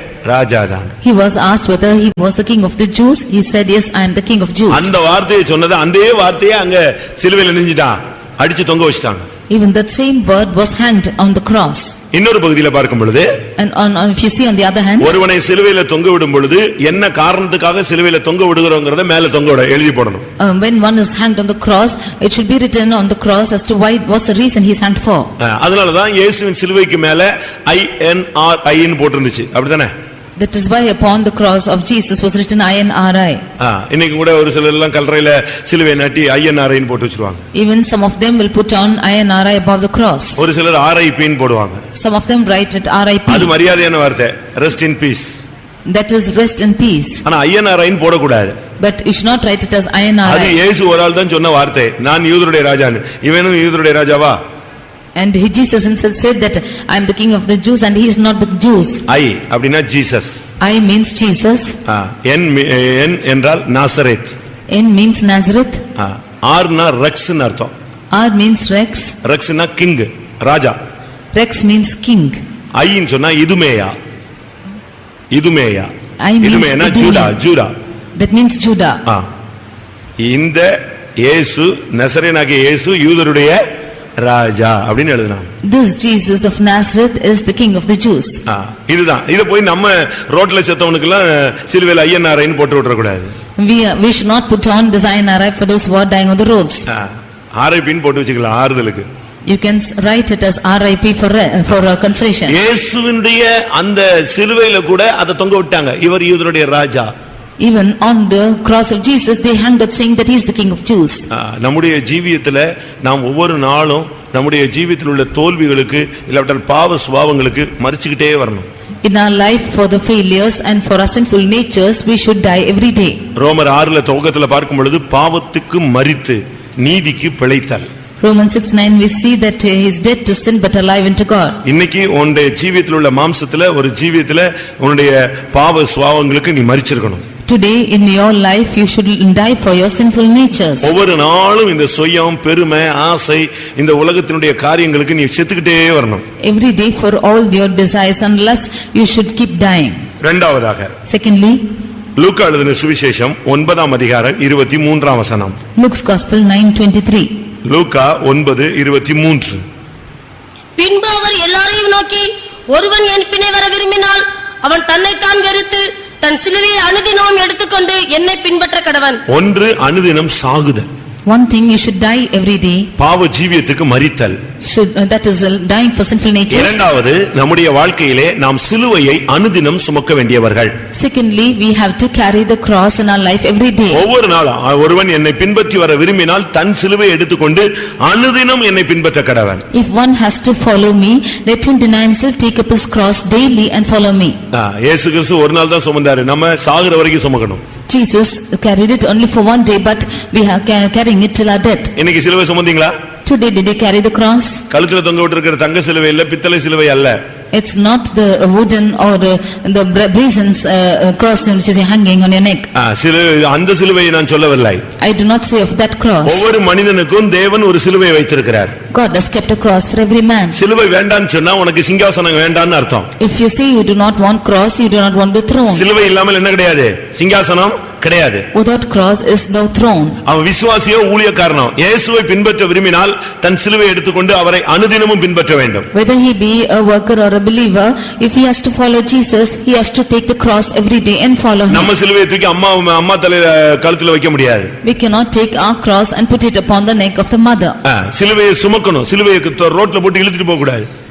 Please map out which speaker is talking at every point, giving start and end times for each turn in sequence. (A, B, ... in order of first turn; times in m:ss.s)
0:00.2-0:01.0 A
0:01.0-0:04.9 B
0:04.7-0:09.3 A
0:09.5-0:12.0 B
0:12.1-0:13.4 A
0:13.6-0:15.2 B
0:15.0-0:20.2 A
0:20.4-0:25.3 B
0:25.4-0:29.9 A
0:30.4-0:33.4 B
0:33.6-0:37.4 A
0:37.5-0:40.4 B
0:40.4-0:41.8 A
0:41.9-0:43.5 B
0:43.3-0:45.4 A
0:45.9-0:47.2 B
0:47.2-0:48.6 A
0:48.8-0:50.6 B
0:50.2-0:54.4 A
0:55.2-0:59.0 B
0:59.1-1:00.4 A
1:00.6-1:01.8 B
1:01.9-1:04.3 A
1:04.7-1:05.8 B
1:06.0-1:07.7 A
1:08.1-1:09.2 B
1:09.2-1:10.8 A
1:11.4-1:12.4 B
1:12.8-1:13.9 A
1:15.3-1:15.9 A
1:16.2-1:17.4 B
1:16.4-1:17.7 A
1:18.2-1:19.0 B
1:20.2-1:23.6 A
1:24.2-1:25.5 A
1:25.6-1:28.4 B
1:28.5-1:33.3 A
1:33.6-1:36.9 B
1:36.9-1:39.1 A
1:39.5-1:42.6 B
1:42.5-1:47.1 A
1:47.6-1:51.3 B
1:51.3-1:58.7 A
1:59.0-2:03.2 B
2:03.4-2:07.9 A
2:08.2-2:11.6 B
2:11.6-2:17.2 A
2:17.5-2:20.9 B
2:20.8-2:26.2 A
2:26.4-2:30.0 B
2:30.2-2:30.9 A
2:31.1-2:31.6 B
2:32.2-2:35.6 A
2:35.8-2:37.3 B
2:37.6-2:39.6 A
2:40.8-2:49.2 C
2:49.3-2:50.9 A
2:51.3-2:52.9 B
2:53.0-2:54.4 A
2:54.6-2:56.8 B
2:56.5-3:00.7 A
3:01.0-3:04.0 B
3:03.9-3:09.6 A
3:09.7-3:14.4 B
3:14.5-3:17.6 A
3:17.9-3:21.9 B
3:22.0-3:22.9 A
3:23.3-3:24.6 B
3:24.7-3:27.2 A
3:27.5-3:32.7 B
3:32.8-3:34.8 A
3:35.0-3:36.4 B
3:36.2-3:38.8 A
3:38.9-3:40.6 B
3:40.5-3:43.1 A
3:43.2-3:45.9 B
3:45.7-3:48.5 A
3:48.5-3:50.2 B
3:50.2-3:55.9 A
3:55.9-4:01.9 B
4:01.7-4:04.7 A
4:04.8-4:07.8 B
4:07.8-4:10.9 A